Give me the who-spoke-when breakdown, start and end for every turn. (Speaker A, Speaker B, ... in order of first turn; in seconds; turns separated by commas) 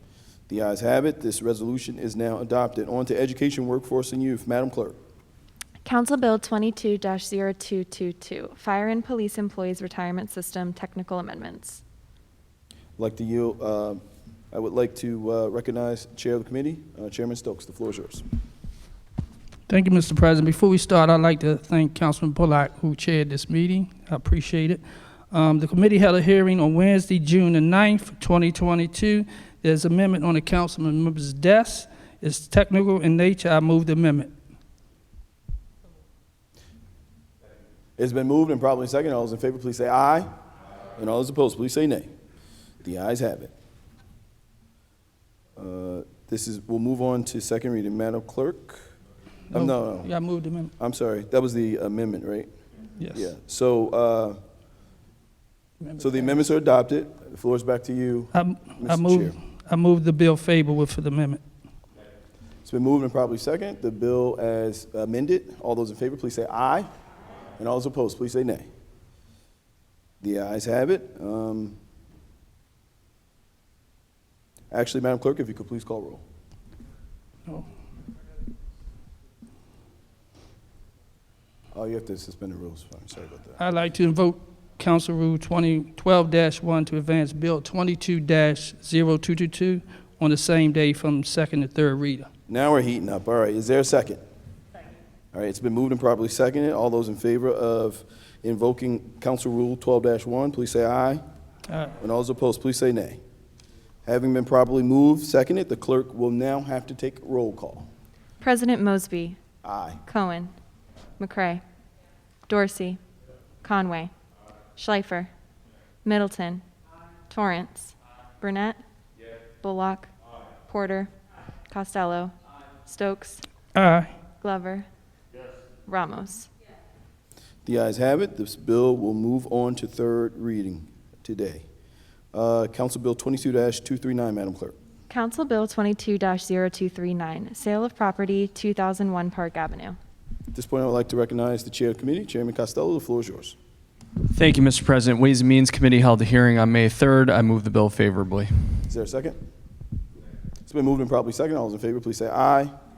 Speaker A: 0.5-5.0, Speaker B: 5.8-11.8, Speaker A: 13.0-14.0, Speaker A: 14.5-18.2, Speaker C: 19.7-34.3, Speaker A: 38.0-40.3, Speaker A: 41.0-42.1, Speaker A: 42.8-43.5, Speaker A: 45.5-48.8, Speaker C: 49.5-50.7, Speaker A: 49.5-50.1, Speaker A: 50.8-52.5, Speaker C: 53.0-53.2, Speaker A: 53.1-54.4, Speaker C: 55.8-56.4, Speaker A: 56.0-59.4, Speaker C: 58.3-61.4, Speaker A: 62.6-66.9, Speaker A: 67.6-68.7, Speaker A: 70.2-71.8, Speaker A: 74.7-76.2, Speaker A: 81.7-83.6, Speaker C: 83.6-92.3, Speaker A: 92.5-94.2, Speaker A: 95.3-101.2, Speaker C: 101.7-101.9, Speaker A: 102.0-103.2, Speaker A: 104.0-107.9, Speaker B: 108.4-109.4, Speaker A: 109.6-110.0, Speaker B: 110.0-110.5, Speaker B: 111.2-111.6, Speaker B: 112.5-113.0, Speaker B: 113.6-114.1, Speaker B: 114.8-115.3, Speaker B: 116.0-116.6, Speaker B: 117.3-118.8, Speaker B: 119.6-120.1, Speaker B: 120.7-121.1, Speaker B: 121.7-122.3, Speaker B: 122.8-123.4, Speaker C: 123.7-124.1, Speaker B: 124.4-124.8, Speaker B: 125.9-126.5, Speaker A: 127.6-131.6, Speaker A: 132.3-134.7, Speaker B: 135.1-139.9, Speaker A: 140.5-143.6, Speaker D: 144.3-148.7, Speaker A: 148.8-149.4, Speaker A: 150.7-152.7